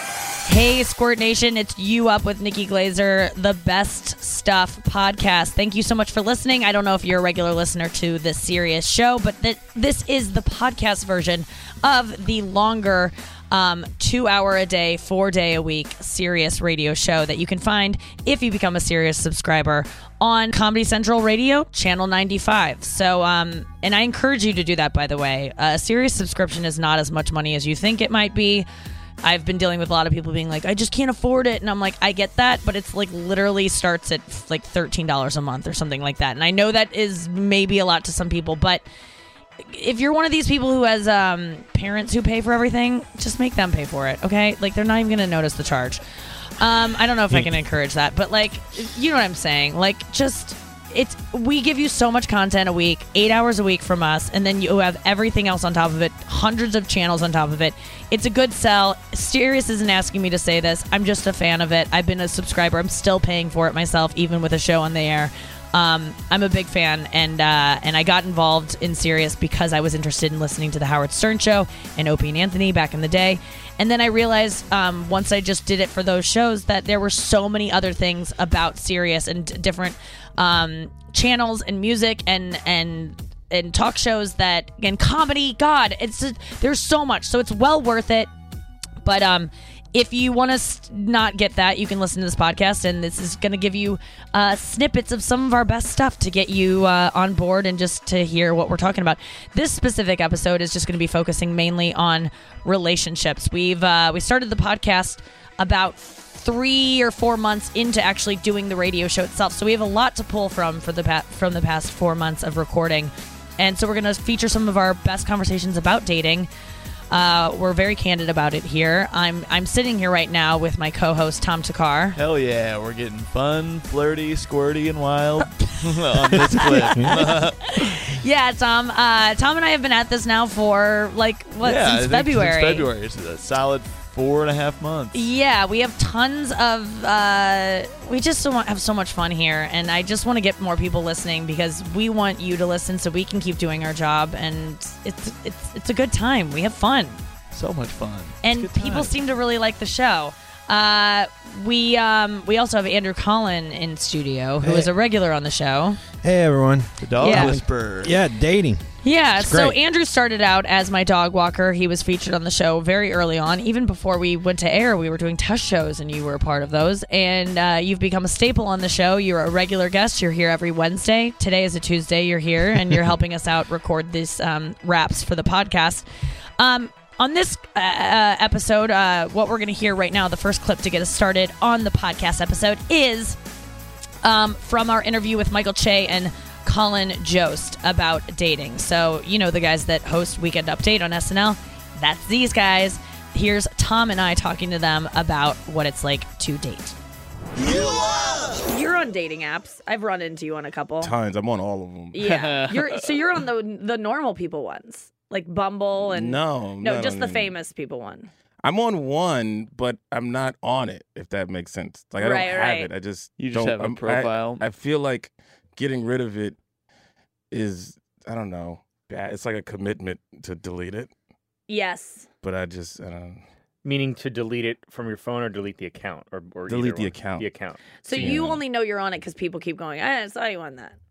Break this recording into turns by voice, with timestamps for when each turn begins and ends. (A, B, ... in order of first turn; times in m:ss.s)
0:00.4-0:28.7 A
0:29.2-0:38.8 A
0:39.6-0:46.0 A
0:46.6-1:28.3 A
1:29.0-1:56.5 A
1:57.1-2:02.2 A
2:02.2-2:08.0 B
2:06.4-2:12.9 A
2:11.6-2:15.3 B
2:15.1-2:27.2 A
2:27.5-2:29.1 B
2:28.4-2:36.0 A
2:34.6-2:34.9 C
2:36.2-2:38.8 C
2:37.0-2:38.1 B
2:37.2-2:37.6 A
2:39.0-2:56.0 A
2:39.4-2:39.8 C
2:56.6-3:03.4 A
3:04.2-3:17.0 A
3:18.5-3:21.1 A
3:21.0-3:22.2 D
3:22.1-3:28.3 A
3:22.2-3:23.0 B
3:26.0-3:27.5 D
3:28.6-3:36.6 D
3:32.2-3:32.9 A
3:33.4-3:34.6 B
3:37.5-3:41.1 D
3:41.7-3:42.3 A
3:42.4-3:43.4 D
3:43.8-3:48.3 E
3:46.7-3:47.5 D
3:48.0-3:51.0 A
3:48.1-3:48.6 D